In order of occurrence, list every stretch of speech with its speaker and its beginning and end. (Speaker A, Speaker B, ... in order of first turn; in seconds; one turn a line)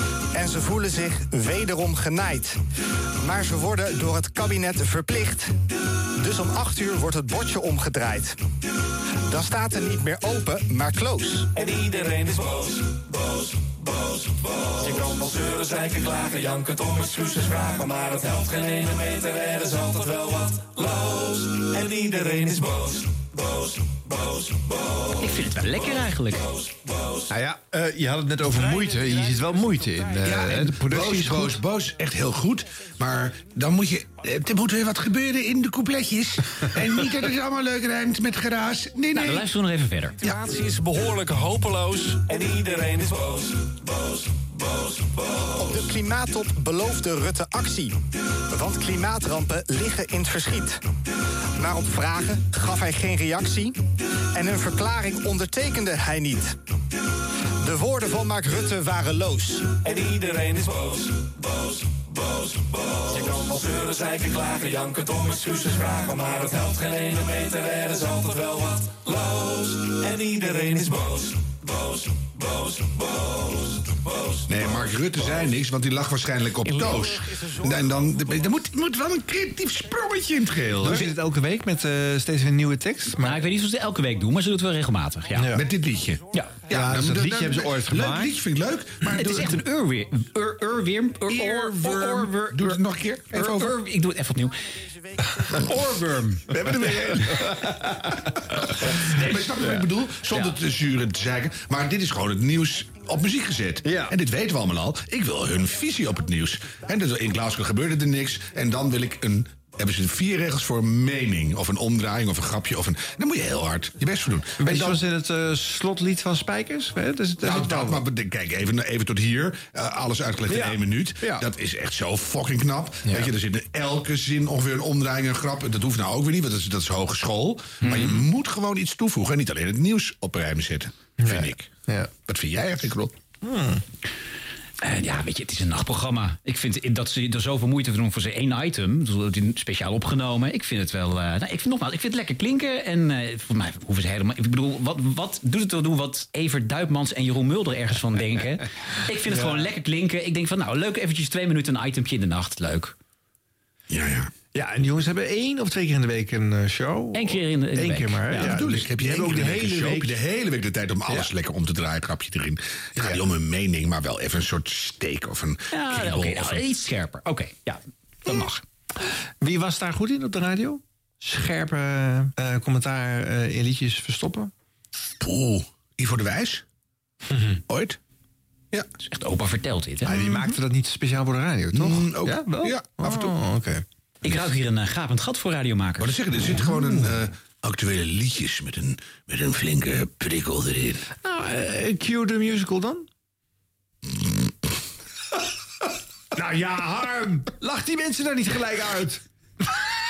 Speaker A: 0.3-2.6
Speaker A: 3.2-5.5
Speaker A: 6.2-8.4
Speaker A: 9.3-11.5
Speaker B: 11.8-12.8
Speaker B: 16.3-20.8
Speaker B: 21.8-22.7
Speaker C: 25.2-26.5
Speaker D: 27.3-31.6
Speaker E: 30.2-39.5
Speaker C: 39.1-40.2
Speaker B: 42.3-43.2
Speaker A: 45.6-48.0
Speaker A: 48.5-50.8
Speaker A: 51.6-53.8
Speaker A: 54.3-56.6
Speaker A: 57.6-59.8
Speaker B: 60.2-61.0
Speaker B: 63.4-69.0
Speaker B: 69.8-71.0
Speaker E: 74.5-81.1
Speaker D: 80.8-83.4
Speaker C: 83.2-85.5
Speaker D: 85.3-85.7
Speaker E: 85.5-89.6
Speaker D: 86.7-88.4
Speaker C: 89.2-92.8
Speaker E: 91.3-93.8
Speaker C: 93.3-94.5
Speaker D: 95.7-98.2
Speaker E: 98.8-115.0
Speaker D: 103.8-104.2
Speaker D: 114.6-118.0
Speaker E: 117.4-133.2
Speaker D: 120.5-121.5
Speaker D: 123.1-123.3
Speaker D: 131.2-132.1
Speaker D: 133.4-133.8
Speaker C: 134.8-152.9
Speaker D: 149.3-149.7
Speaker E: 153.9-154.3
Speaker D: 154.5-160.2
Speaker C: 157.1-158.6
Speaker E: 158.3-166.7
Speaker C: 165.7-168.6
Speaker D: 169.4-174.5
Speaker E: 175.2-176.7
Speaker D: 177.3-177.6
Speaker E: 177.7-178.0
Speaker C: 179.0-180.2
Speaker D: 180.1-183.8
Speaker E: 180.1-180.6
Speaker E: 181.7-183.3
Speaker C: 184.2-186.2
Speaker E: 186.0-191.1
Speaker D: 191.2-193.1
Speaker D: 196.3-199.2